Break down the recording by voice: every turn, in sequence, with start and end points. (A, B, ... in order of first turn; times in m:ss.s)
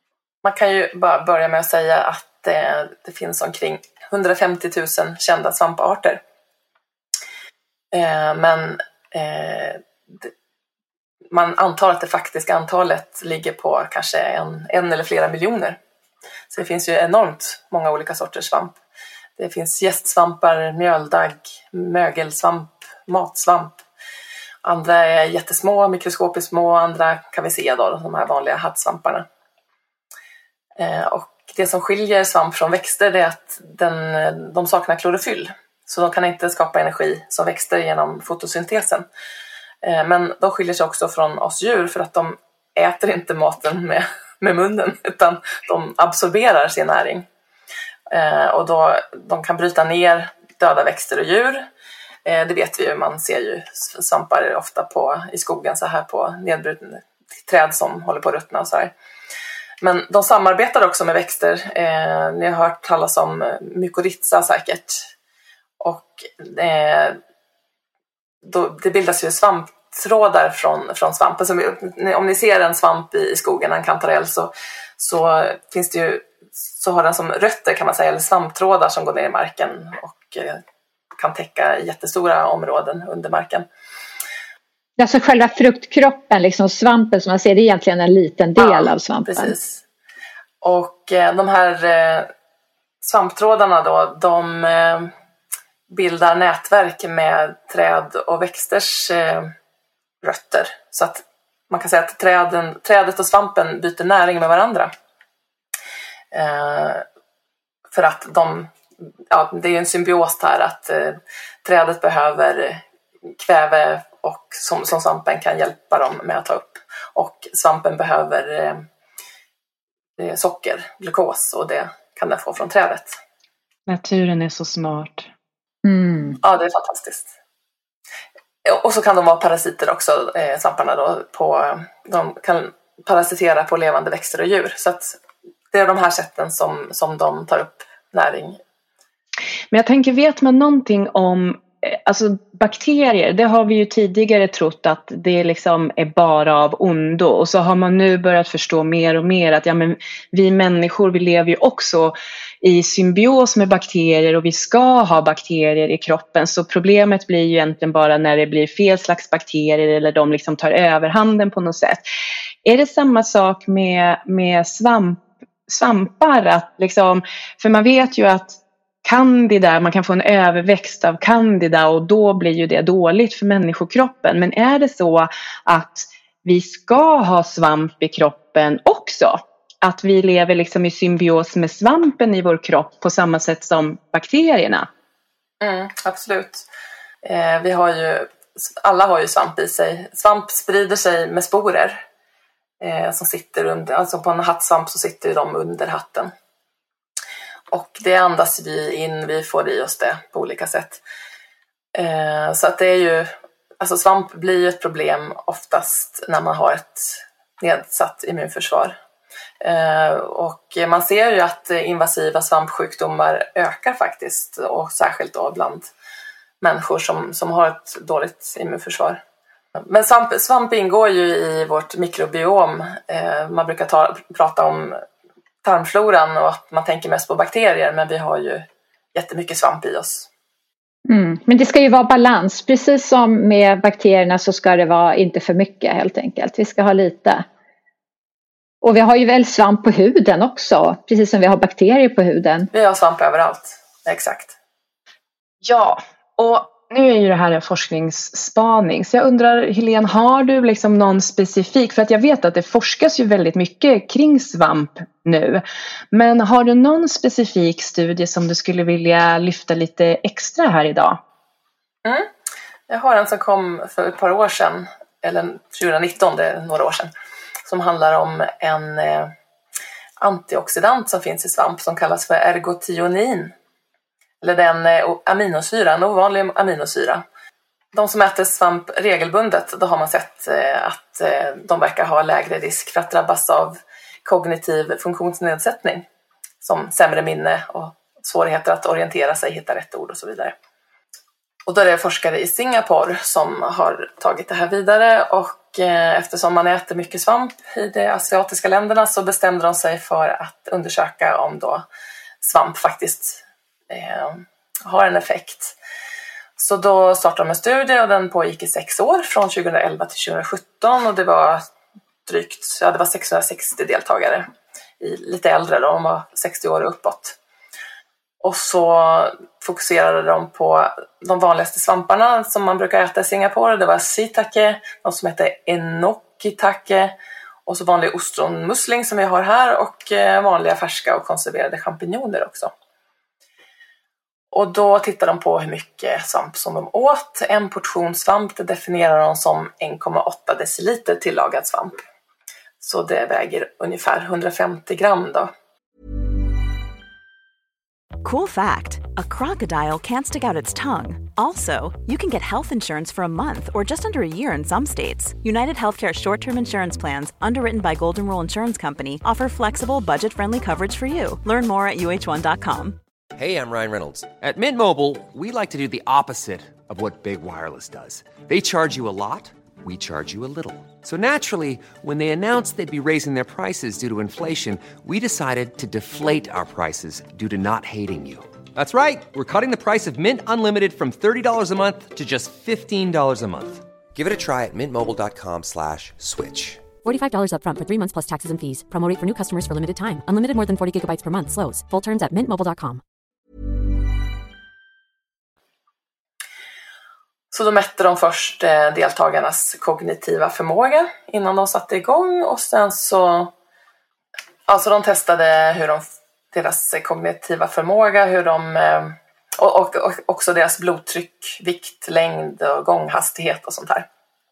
0:00.4-0:06.2 A
0:07.9-0:10.3 A
0:11.3-0:15.8 A
0:16.5-0:18.8 A
0:19.4-0:23.8 A
0:24.6-0:29.2 A
0:30.8-0:39.1 A
0:39.8-0:47.3 A
0:48.1-0:51.7 A
0:52.2-0:58.9 A
0:59.8-1:05.1 A
1:05.8-1:07.2 A
1:08.4-1:20.6 A
1:21.2-1:23.6 A
1:25.0-1:29.5 B
1:28.6-1:29.8 A
1:30.6-1:32.3 A
1:33.0-1:35.1 A
1:35.9-1:39.5 A
1:40.2-1:44.9 A
1:46.3-1:47.0 A
1:47.9-1:48.7 A
1:49.3-1:52.8 A
1:53.4-1:58.9 A
2:00.2-2:03.2 A
2:03.9-2:05.3 C
2:05.8-2:06.4 B
2:06.4-2:07.3 A
2:08.6-2:15.2 A
2:15.7-2:18.6 A
2:19.7-2:42.0 C
2:42.6-3:04.9 C
3:05.6-3:06.7 A
3:07.2-3:12.0 A
3:12.8-3:16.3 A
3:17.7-3:21.0 A
3:22.0-3:29.0 A
3:29.6-3:35.9 A
3:36.6-3:39.2 A
3:39.9-3:45.0 A
3:45.6-3:50.3 A
3:51.1-3:57.4 B
3:58.8-4:02.7 B
4:02.7-4:04.5 A
4:05.6-4:21.2 C
4:22.0-4:22.3 A
4:22.9-4:27.1 A
4:27.7-4:29.3 A
4:30.2-4:33.5 A
4:34.4-4:37.2 A
4:37.9-4:46.1 A
4:46.6-4:50.6 A
4:51.7-5:01.8 A
5:02.4-5:05.8 A
5:06.6-5:11.6 A
5:12.3-5:14.5 A
5:15.0-5:17.4 A
5:18.4-5:27.2 A
5:27.7-5:32.7 A
5:34.5-5:42.0 A
5:42.8-5:45.5 A
5:48.2-6:03.0 D
6:03.4-6:26.9 E
6:27.0-6:33.0 F
6:37.5-6:43.5 A
6:44.7-6:54.1 A